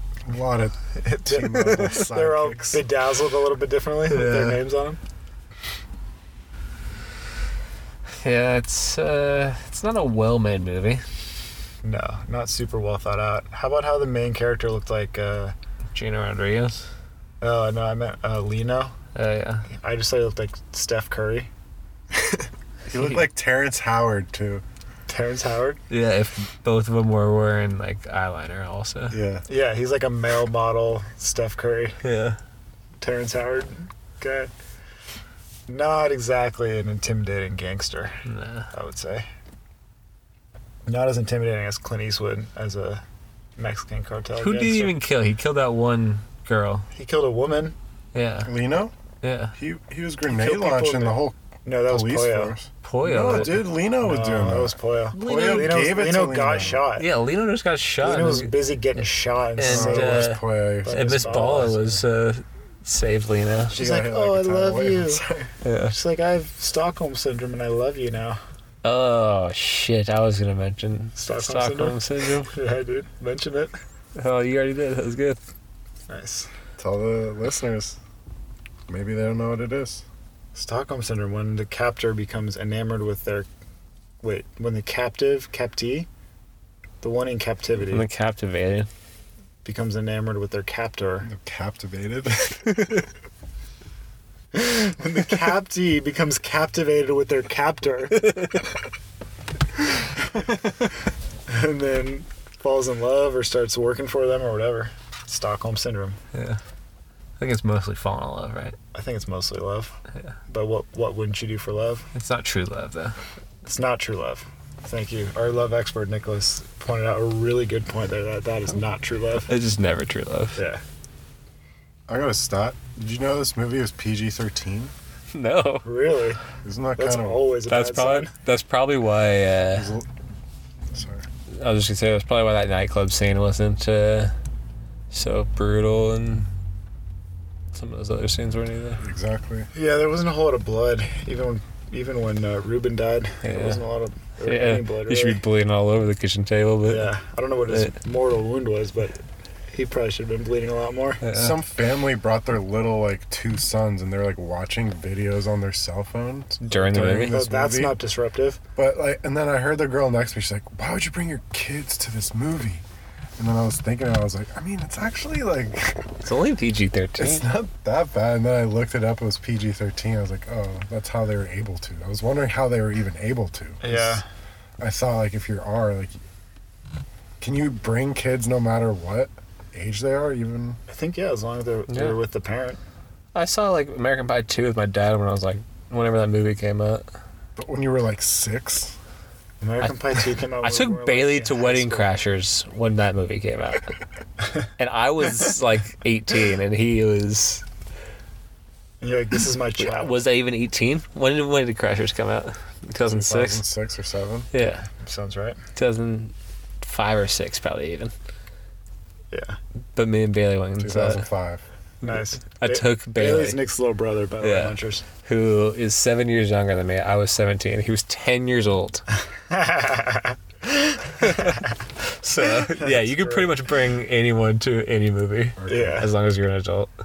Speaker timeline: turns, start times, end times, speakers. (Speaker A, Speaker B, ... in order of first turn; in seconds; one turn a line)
Speaker A: 0.3-2.8
Speaker B: 1.0-5.0
Speaker C: 4.1-4.6
Speaker C: 8.2-11.0
Speaker B: 11.8-15.6
Speaker C: 15.9-16.9
Speaker B: 17.4-18.9
Speaker C: 19.1-19.7
Speaker B: 19.7-21.5
Speaker A: 22.9-24.6
Speaker C: 22.9-23.2
Speaker B: 25.1-25.8
Speaker C: 25.9-29.2
Speaker A: 29.1-29.4
Speaker B: 29.5-32.0
Speaker C: 32.0-32.4
Speaker B: 33.0-34.5
Speaker B: 35.7-38.2
Speaker C: 38.3-38.7
Speaker B: 38.7-39.3
Speaker B: 40.9-43.0
Speaker B: 43.6-45.0
Speaker C: 44.4-46.9
Speaker B: 47.0-47.8
Speaker C: 48.1-48.5
Speaker A: 48.5-48.9
Speaker C: 49.2-49.5
Speaker A: 49.5-56.9
Speaker B: 50.2-52.6
Speaker C: 52.8-53.6
Speaker B: 54.0-57.1
Speaker C: 55.1-55.9
Speaker C: 57.0-58.5
Speaker B: 58.0-60.3
Speaker C: 59.6-63.8
Speaker A: 59.6-62.0
Speaker B: 60.9-61.8
Speaker B: 63.7-65.2
Speaker A: 63.7-65.5
Speaker C: 65.6-65.9
Speaker B: 65.9-68.4
Speaker C: 68.8-72.5
Speaker B: 71.2-73.7
Speaker C: 74.2-75.4
Speaker B: 76.1-76.5
Speaker A: 76.8-78.0
Speaker A: 78.9-80.0
Speaker B: 80.5-83.5
Speaker B: 84.2-86.1
Speaker B: 87.0-88.1
Speaker C: 87.8-88.9
Speaker B: 89.6-91.3
Speaker A: 91.2-93.1
Speaker B: 94.5-98.4
Speaker C: 98.2-98.6
Speaker B: 101.5-106.2
Speaker C: 106.3-106.6
Speaker C: 107.4-108.8
Speaker B: 108.9-110.0
Speaker B: 110.5-112.1
Speaker C: 112.1-113.2
Speaker B: 113.7-119.5
Speaker C: 119.5-120.6
Speaker B: 120.6-120.8
Speaker A: 122.1-124.9
Speaker C: 125.3-125.8
Speaker B: 125.8-126.4
Speaker A: 126.6-127.4
Speaker B: 127.0-128.3
Speaker C: 127.7-129.9
Speaker A: 129.7-130.1
Speaker A: 130.9-131.2
Speaker C: 131.5-134.3
Speaker C: 135.1-136.5
Speaker C: 137.7-139.0
Speaker A: 139.0-139.7
Speaker B: 139.7-145.4
Speaker C: 143.4-143.8
Speaker C: 144.4-147.1
Speaker B: 146.9-149.2
Speaker C: 147.7-147.9
Speaker B: 149.7-151.2
Speaker C: 151.2-151.5
Speaker A: 151.3-158.0
Speaker C: 156.6-157.4
Speaker B: 156.9-158.6
Speaker A: 158.8-162.8
Speaker A: 163.4-166.2
Speaker C: 166.2-167.4
Speaker A: 167.2-174.2
Speaker B: 173.8-174.2
Speaker A: 174.8-176.2
Speaker A: 177.4-180.8
Speaker B: 180.9-182.8
Speaker C: 181.9-182.2
Speaker C: 183.3-187.0
Speaker A: 187.6-189.0
Speaker B: 189.6-192.1
Speaker C: 189.8-193.9
Speaker C: 194.8-197.6
Speaker B: 199.0-200.2
Speaker C: 199.8-203.6
Speaker A: 203.1-204.5
Speaker C: 204.5-204.9
Speaker B: 204.9-205.6
Speaker C: 205.8-208.1
Speaker B: 209.3-209.6
Speaker C: 210.0-211.3
Speaker A: 210.8-211.6
Speaker C: 212.0-213.6
Speaker B: 212.0-215.1
Speaker C: 214.4-219.0
Speaker B: 219.5-221.7
Speaker C: 221.2-226.9
Speaker B: 222.4-223.5
Speaker A: 225.6-226.0
Speaker B: 225.7-226.1